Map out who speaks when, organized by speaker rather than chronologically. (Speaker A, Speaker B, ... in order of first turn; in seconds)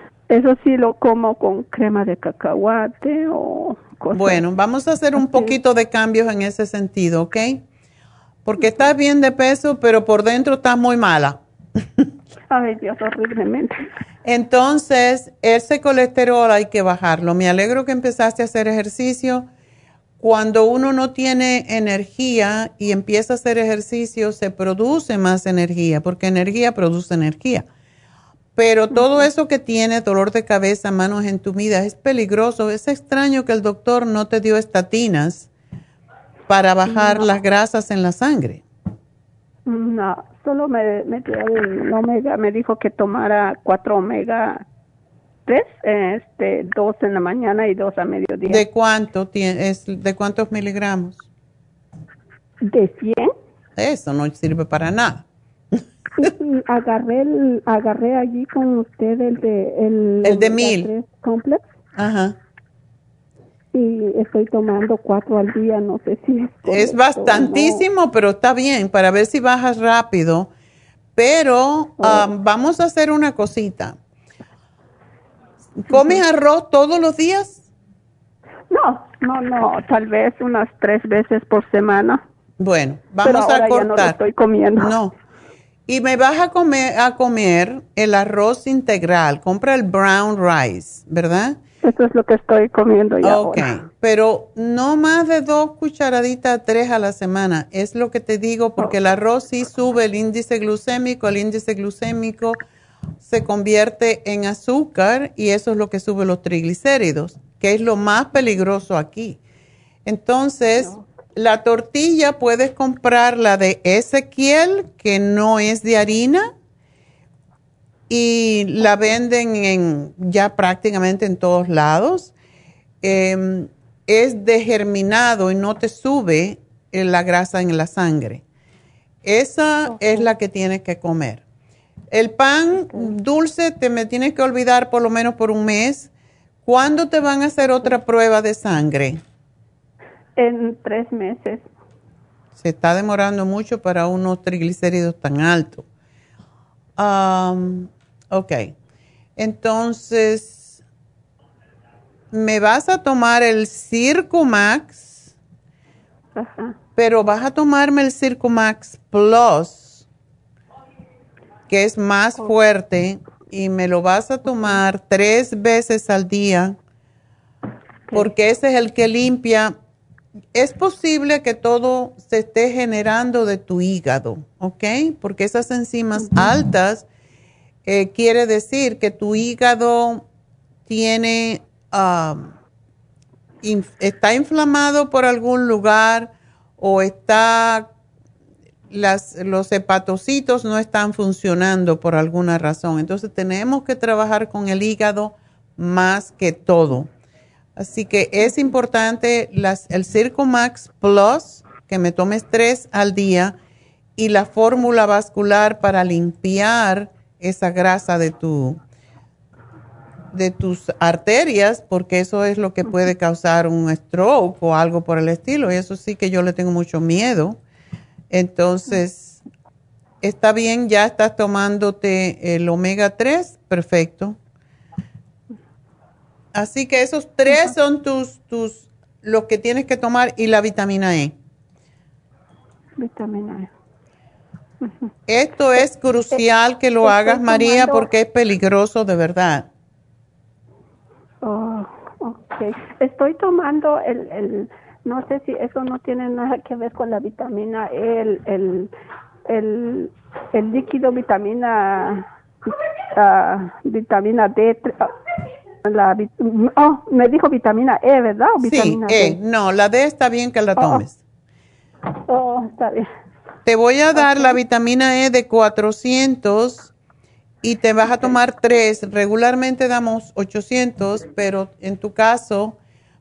Speaker A: 0.3-4.4, 5.2-5.5, 12.5-13.8, 28.9-29.3, 36.9-37.4, 39.7-44.6, 45.5-48.6, 52.6-53.3, 56.2-61.6, 63.7-67.8, 72.0-72.3, 75.9-76.2, 78.7-82.2, 83.2-85.0, 91.8-93.7, 129.9-130.2, 140.4-141.7, 156.3-156.8, 176.2-176.4, 233.0-233.7, 234.8-235.1, 235.7-236.4, 237.0-238.1, 241.4-248.9, 249.5-255.1, 255.8-259.4, 260.8-261.0, 262.3-263.1, 264.1-264.6
Speaker B: 4.1-7.6, 8.4-11.4, 14.3-19.5, 20.2-27.7, 28.6-35.5, 36.5-38.6, 48.5-51.2, 53.8-55.2, 60.2-60.9, 62.0-62.4, 66.7-70.5, 71.2-74.0, 75.8-77.6, 82.6-84.2, 84.8-85.1, 85.9-91.6, 93.2-102.6, 103.2-109.4, 110.1-116.5, 118.1-122.3, 123.0-128.4, 129.2-131.4, 132.1-136.1, 136.7-139.2, 142.6-145.8, 147.0-148.7, 149.4-150.8, 152.3-155.3, 157.0-160.0, 161.7-166.8, 168.1-169.8, 170.6-177.1, 177.9-180.2, 180.9-182.5, 183.6-187.9, 188.9-197.1, 197.8-203.6, 204.2-208.8, 210.3-217.6, 218.3-219.4, 220.2-224.4, 226.6-231.3, 235.3-239.7, 258.6-261.2, 263.6-266.9, 267.6-272.8